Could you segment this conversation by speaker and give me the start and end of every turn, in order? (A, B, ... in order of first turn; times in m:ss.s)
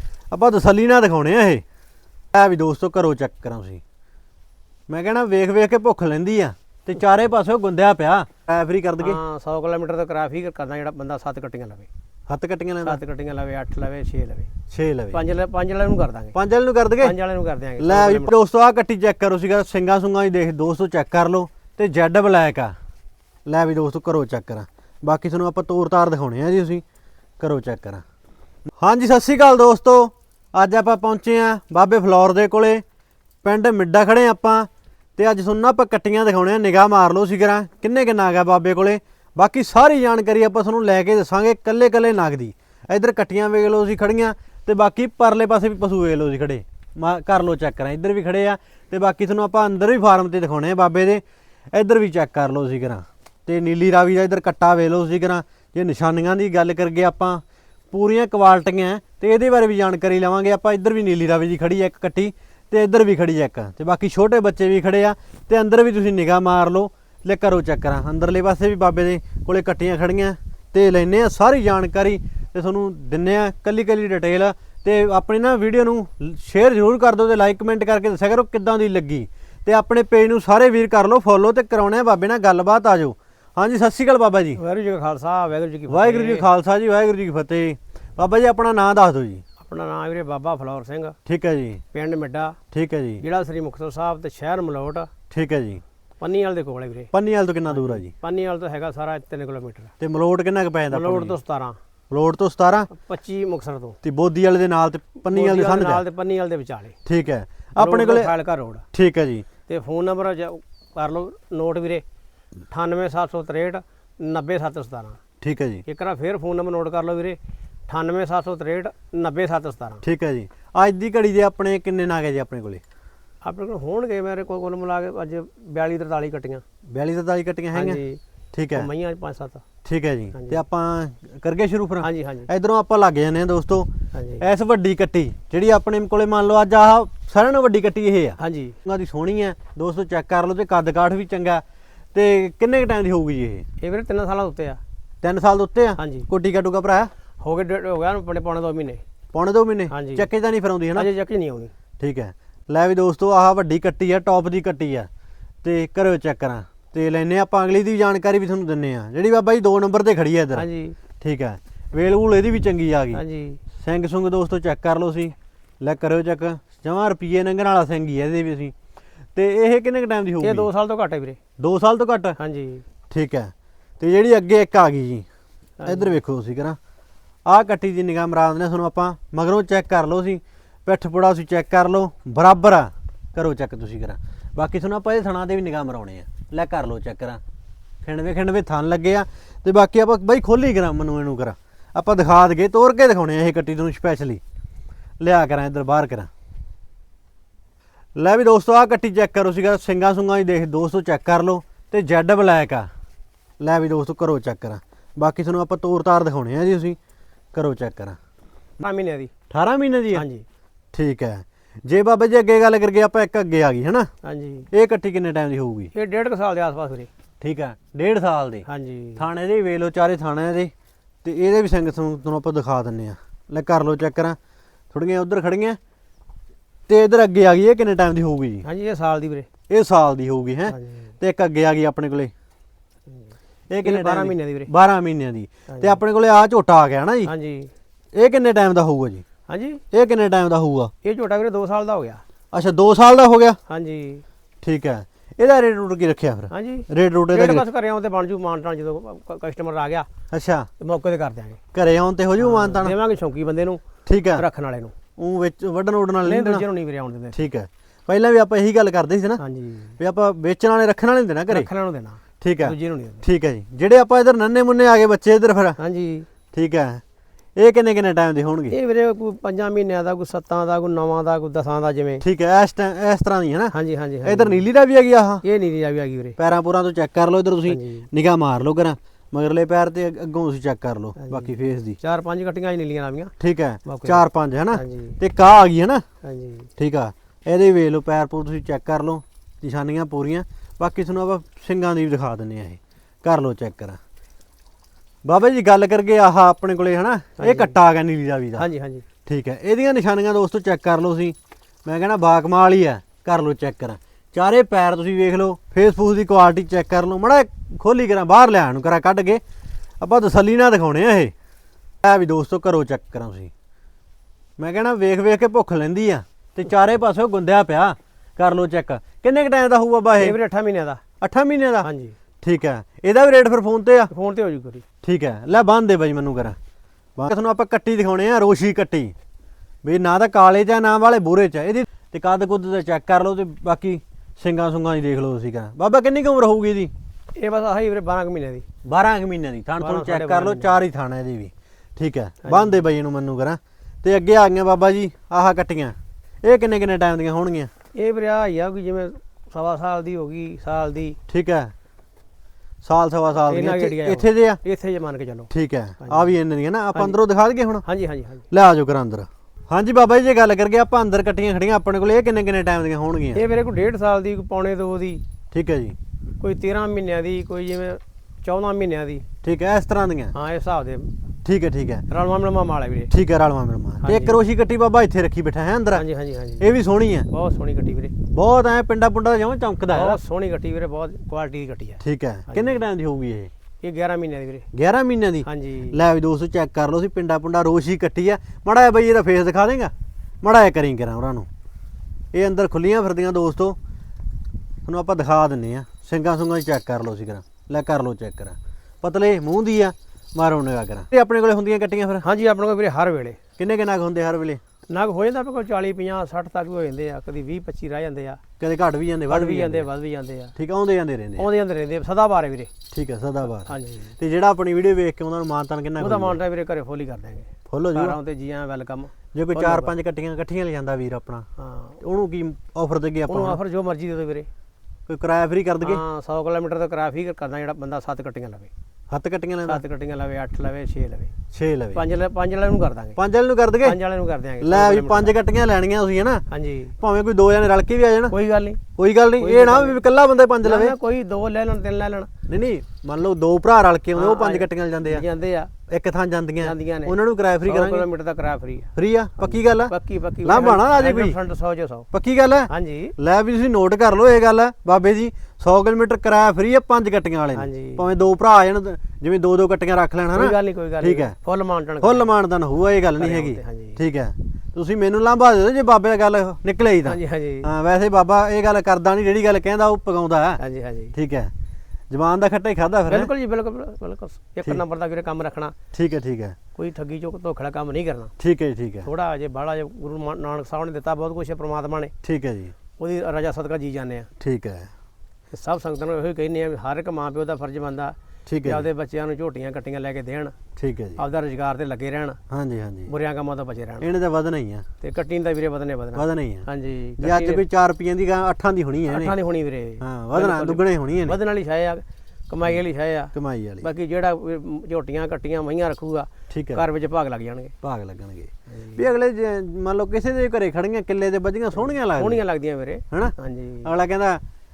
0:00.3-0:01.6 A
0:02.3-0:03.8 A
0:04.9-0:09.2 A
0:09.0-0:11.9 B
0:12.3-0:13.0 A
0:12.8-0:14.5 B
0:14.7-0:15.2 A
0:15.1-0:16.4 B
0:16.3-0:17.2 A
0:17.0-0:18.3 B
0:17.8-0:22.7 A
0:23.4-0:26.8 A
0:27.4-0:28.0 A
0:28.8-0:32.8 A
0:33.4-0:51.2 A
0:51.7-1:24.6 A
1:24.6-1:26.5 B
1:25.9-1:29.4 A
1:29.6-1:31.2 B
1:31.2-1:31.8 A
1:31.9-1:32.6 B
1:32.7-1:33.2 A
1:33.2-1:35.1 B
1:35.3-1:35.8 A
1:36.2-1:37.1 B
1:37.1-1:38.1 A
1:37.7-1:39.9 B
1:40.0-1:41.4 A
1:40.9-1:41.8 B
1:42.1-1:42.9 A
1:42.9-1:44.0 B
1:44.0-1:46.0 A
1:45.3-1:47.0 B
1:47.0-1:48.3 A
1:47.8-1:48.8 B
1:48.9-1:49.4 A
1:49.7-1:52.0 B
1:52.7-1:55.2 B
1:55.4-1:55.8 A
1:55.8-2:00.0 B
2:00.0-2:02.8 A
2:03.4-2:06.6 B
2:06.9-2:08.0 A
2:07.7-2:08.2 B
2:08.5-2:08.9 A
2:08.7-2:09.6 B
2:09.8-2:23.7 A
2:10.3-2:10.6 B
2:12.0-2:12.5 B
2:14.1-2:14.4 B
2:18.4-2:18.8 B
2:23.8-2:24.8 B
2:25.2-2:27.1 A
2:26.0-2:26.3 B
2:27.4-2:29.0 B
2:29.3-2:31.1 A
2:29.9-2:30.3 B
2:30.9-2:31.7 B
2:32.0-2:35.1 A
2:35.6-2:40.6 A
2:40.5-2:41.0 B
2:41.2-2:43.2 A
2:43.1-2:43.6 B
2:43.8-2:48.7 A
2:49.3-2:50.7 A
2:50.4-2:51.4 B
2:51.6-2:52.4 A
2:52.4-2:52.8 B
2:53.1-2:55.2 A
2:55.8-2:56.2 B
2:55.8-2:56.8 A
2:57.4-3:07.4 A
3:08.0-3:14.4 A
3:15.2-3:16.3 A
3:18.2-3:22.9 A
3:23.6-3:27.0 A
3:27.5-3:28.2 A
3:28.8-3:29.3 B
3:29.5-3:30.2 A
3:30.1-3:30.4 B
3:30.9-3:34.1 A
3:34.2-3:34.7 B
3:34.7-3:35.9 A
3:35.9-3:37.1 B
3:37.4-3:38.6 A
3:38.6-3:39.2 B
3:39.2-3:40.7 A
3:41.2-3:44.4 A
3:44.9-3:45.8 A
3:46.9-3:48.6 A
3:48.6-3:49.5 B
3:49.7-3:52.3 A
3:50.7-3:51.0 B
3:53.7-3:57.3 A
3:53.8-3:54.7 B
3:55.7-3:56.0 B
3:57.2-3:57.7 B
3:58.1-3:59.2 A
3:59.5-3:59.8 B
3:59.9-4:00.9 A
4:01.0-4:02.2 B
4:02.5-4:03.6 A
4:03.7-4:04.2 B
4:04.6-4:07.6 A
4:06.5-4:10.1 B
4:10.3-4:10.7 A
4:10.8-4:11.6 B
4:11.7-4:12.9 A
4:12.4-4:13.8 B
4:14.0-4:14.4 A
4:14.3-4:14.9 B
4:15.2-4:16.6 A
4:16.2-4:17.4 B
4:17.3-4:19.4 A
4:19.4-4:19.9 B
4:20.0-4:21.7 A
4:21.5-4:23.2 B
4:22.4-4:25.8 A
4:25.8-4:26.3 B
4:26.5-4:27.0 A
4:27.6-4:28.8 A
4:28.7-4:32.2 B
4:32.2-4:35.4 A
4:33.7-4:34.6 B
4:35.4-4:36.4 B
4:36.4-4:42.0 A
4:37.6-4:38.1 B
4:41.2-4:43.3 B
4:43.4-4:46.0 A
4:43.8-4:45.2 B
4:46.2-4:46.7 B
4:46.8-4:54.0 A
4:55.2-4:58.7 A
4:57.4-4:57.8 B
4:58.6-4:59.0 B
4:59.2-5:09.4 A
5:10.0-5:11.3 A
5:12.0-5:13.5 A
5:14.6-5:20.4 A
5:20.2-5:21.0 B
5:21.2-5:21.9 A
5:21.8-5:22.1 B
5:22.4-5:24.1 A
5:24.1-5:24.8 B
5:25.0-5:26.6 A
5:27.2-5:29.1 A
5:29.8-5:36.9 A
5:37.4-5:38.6 B
5:38.8-5:47.7 A
5:39.8-5:40.8 B
5:42.4-5:42.8 B
5:47.9-5:51.2 B
5:51.3-5:51.7 A
5:52.8-5:54.6 A
5:53.4-5:56.3 B
5:55.5-5:57.8 A
5:56.9-5:57.2 B
5:57.8-5:58.5 B
5:58.5-6:03.4 A
6:03.3-6:05.2 B
6:05.5-6:06.0 A
6:06.4-6:09.2 B
6:09.4-6:10.3 A
6:10.3-6:11.1 B
6:11.4-6:12.1 A
6:12.1-6:13.1 B
6:13.1-6:16.0 A
6:14.0-6:14.4 B
6:15.9-6:16.7 B
6:16.6-6:17.3 A
6:17.3-6:18.2 B
6:18.3-6:20.2 A
6:19.9-6:22.8 B
6:22.0-6:23.5 A
6:23.8-6:24.7 B
6:24.7-6:31.5 A
6:25.4-6:26.0 B
6:32.3-6:33.8 A
6:34.8-6:42.2 A
6:42.2-6:43.4 B
6:43.6-6:44.6 A
6:44.9-6:48.4 B
6:48.6-6:49.9 A
6:49.3-6:50.5 B
6:50.6-6:51.5 A
6:51.4-6:52.7 B
6:52.9-6:56.4 A
6:53.6-6:54.1 B
6:56.0-6:59.9 B
6:57.7-6:58.2 A
6:59.3-7:01.4 A
7:01.6-7:02.0 B
7:02.0-7:03.6 A
7:03.3-7:04.5 B
7:05.1-7:06.0 A
7:05.8-7:08.7 B
7:09.1-7:09.8 A
7:09.6-7:11.3 B
7:11.5-7:12.0 A
7:11.9-7:13.2 B
7:13.2-7:14.0 A
7:13.8-7:15.4 B
7:14.6-7:16.4 A
7:16.5-7:17.0 B
7:17.0-7:18.3 A
7:18.3-7:18.8 B
7:18.9-7:20.9 A
7:19.4-7:20.0 B
7:20.6-7:22.3 B
7:22.5-7:25.2 A
7:24.1-7:25.7 B
7:25.9-7:28.1 A
7:26.6-7:32.1 B
7:29.0-7:31.4 A
7:32.1-7:41.3 A
7:32.7-7:33.1 B
7:37.5-7:38.0 B
7:40.3-7:42.3 B
7:42.0-7:50.6 A
7:42.9-7:44.0 B
7:47.0-7:47.7 B
7:50.6-7:51.1 B
7:51.1-7:51.5 A
7:52.1-7:53.3 A
7:53.1-7:55.7 B
7:55.9-7:56.6 A
7:56.7-7:58.3 B
7:58.4-7:59.1 A
7:59.0-8:02.1 B
8:02.2-8:02.7 A
8:03.0-8:04.3 B
8:04.4-8:04.9 A
8:05.5-8:10.5 B
8:08.4-8:08.9 A
8:10.8-8:11.2 A
8:11.2-8:12.4 B
8:12.5-8:13.1 A
8:13.1-8:14.1 B
8:14.0-8:14.8 A
8:15.0-8:17.6 B
8:16.1-8:16.7 A
8:17.2-8:19.3 A
8:19.1-8:27.7 B
8:20.0-8:21.4 A
8:23.3-8:23.9 A
8:26.5-8:26.8 A
8:27.8-8:32.4 A
8:28.7-8:29.0 B
8:31.8-8:33.9 B
8:33.1-8:34.4 A